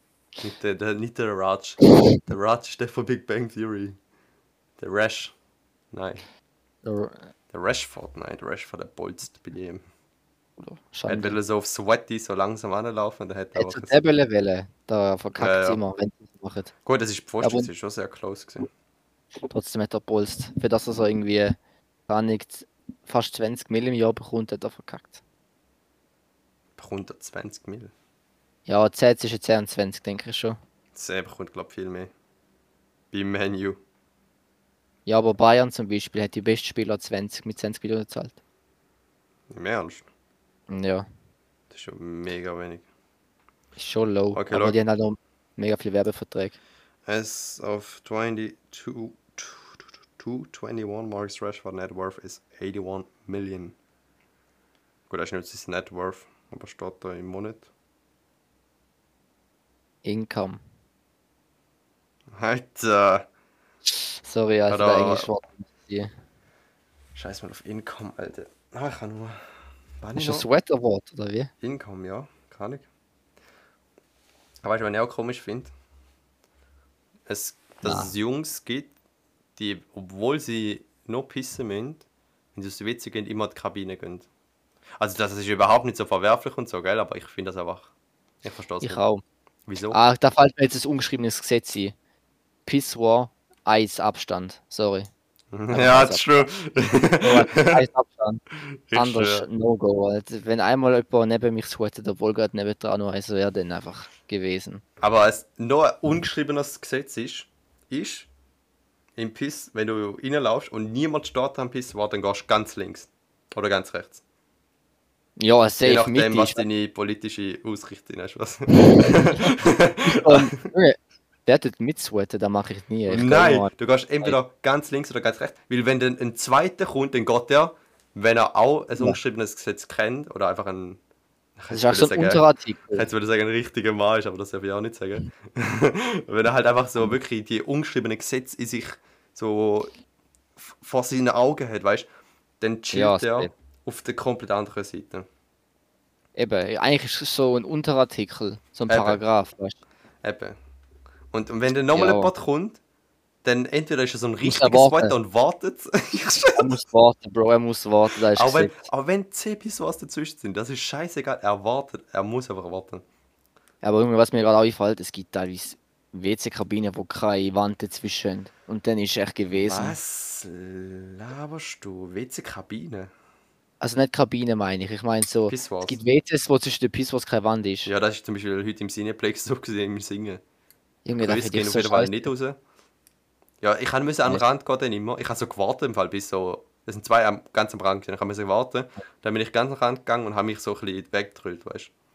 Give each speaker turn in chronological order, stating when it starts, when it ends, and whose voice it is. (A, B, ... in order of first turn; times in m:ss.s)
0:00.4-0:04.0 A
0:04.8-0:05.4 A
0:05.9-0:06.3 A
0:06.8-0:07.3 B
0:07.5-0:09.8 A
0:10.6-0:11.4 B
0:11.1-0:13.9 A
0:13.6-0:16.7 B
0:15.4-0:15.8 A
0:16.8-0:18.7 A
0:17.4-0:17.7 B
0:19.5-0:21.6 B
0:22.1-0:25.2 B
0:26.8-0:27.9 A
0:28.7-0:30.6 B
0:31.0-0:32.1 A
0:33.1-0:33.8 A
0:35.1-0:38.4 B
0:39.5-0:40.1 A
0:40.7-0:41.1 B
0:41.7-0:42.9 A
0:43.8-0:46.6 B
0:44.3-0:44.8 A
0:47.1-0:53.8 A
0:55.1-0:57.7 A
1:00.0-1:00.6 B
1:02.4-1:03.3 A
1:04.0-1:06.1 B
1:04.7-1:05.3 A
1:07.2-1:10.5 A
1:10.2-1:11.5 B
1:11.6-1:12.9 A
1:14.6-1:15.7 A
1:17.3-1:18.9 A
1:17.8-1:18.1 B
1:19.6-1:24.3 A
1:25.0-1:27.9 A
1:28.4-1:29.0 A
1:28.8-1:29.2 B
1:29.7-1:30.0 A
1:29.9-1:31.9 B
1:32.7-1:35.1 B
1:35.5-1:37.9 A
1:35.7-1:36.5 B
1:37.2-1:38.4 B
1:38.6-1:39.5 A
1:39.0-1:44.8 B
1:45.0-1:48.3 A
1:49.2-1:54.2 A
1:55.4-1:56.6 B
1:55.8-2:00.7 A
1:58.8-2:04.4 B
2:03.1-2:11.0 A
2:11.6-2:19.9 A
2:11.7-2:13.1 B
2:20.6-2:22.1 A
2:22.6-2:25.3 A
2:22.9-2:23.5 B
2:26.4-2:29.8 B
2:28.9-2:29.2 A
2:30.2-2:30.6 A
2:31.3-2:32.8 A
2:31.9-2:32.3 B
2:33.4-2:36.8 A
2:34.4-2:35.2 B
2:36.6-2:38.9 B
2:38.3-2:43.0 A
2:43.8-2:50.0 B
2:49.5-2:53.1 A
2:53.8-2:57.9 B
2:55.5-2:56.0 A
2:57.8-3:00.4 A
3:01.0-3:02.3 B
3:01.2-3:02.6 A
3:03.6-3:11.9 A